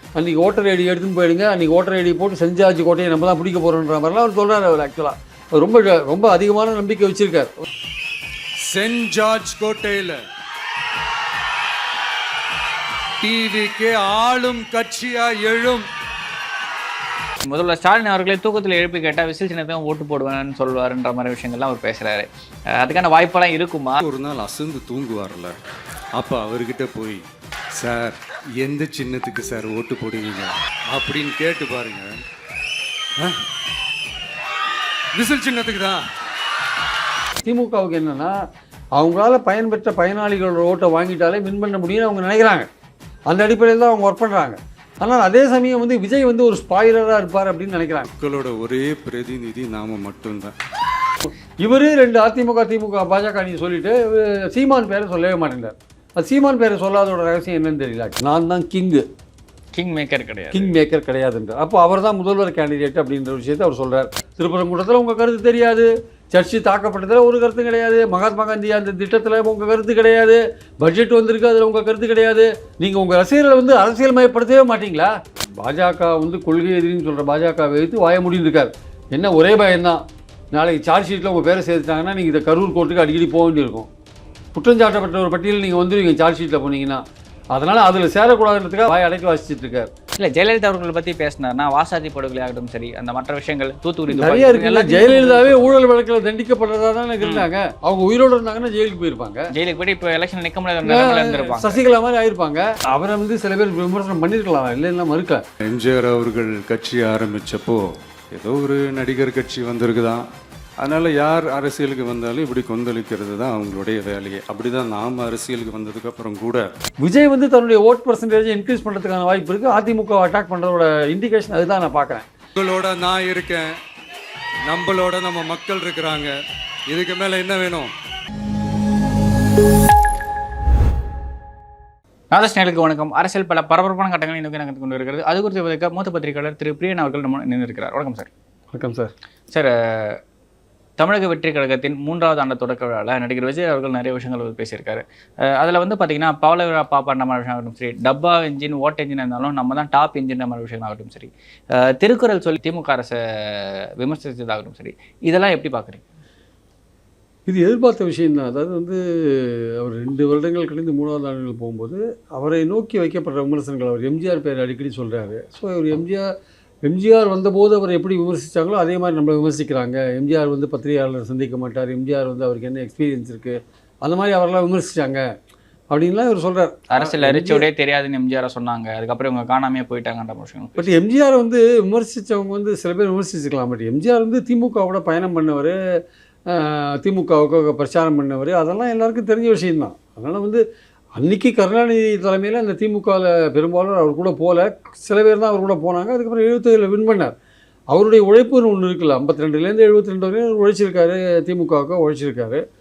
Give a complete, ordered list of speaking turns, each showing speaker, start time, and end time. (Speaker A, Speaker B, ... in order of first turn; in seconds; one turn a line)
Speaker A: 0.1-7.6
Speaker B: 8.6-10.2
Speaker B: 13.2-15.8
Speaker C: 17.4-24.0
Speaker B: 24.0-25.6
Speaker B: 26.2-27.2
Speaker B: 27.8-32.1
Speaker B: 35.1-36.0
Speaker A: 37.4-38.4
Speaker A: 39.0-42.7
Speaker A: 43.3-48.1
Speaker B: 48.2-50.5
Speaker A: 51.6-59.0
Speaker C: 59.7-60.7
Speaker A: 60.5-80.0
Speaker A: 80.5-83.9
Speaker A: 84.5-87.0
Speaker A: 87.5-89.9
Speaker C: 90.2-95.8
Speaker A: 94.1-99.5
Speaker C: 99.5-101.8
Speaker A: 100.8-105.4
Speaker B: 105.6-110.2
Speaker B: 110.8-116.7
Speaker A: 117.0-122.2
Speaker B: 122.5-123.7
Speaker B: 124.7-126.3
Speaker B: 126.9-127.9
Speaker C: 132.3-138.3
Speaker A: 138.7-139.1
Speaker C: 139.5-140.2
Speaker C: 141.0-156.0
Speaker A: 157.5-166.3
Speaker A: 166.8-175.2
Speaker A: 175.9-177.7
Speaker C: 176.9-180.9
Speaker A: 180.8-185.8
Speaker A: 186.5-190.6
Speaker A: 191.2-197.3
Speaker A: 197.9-202.6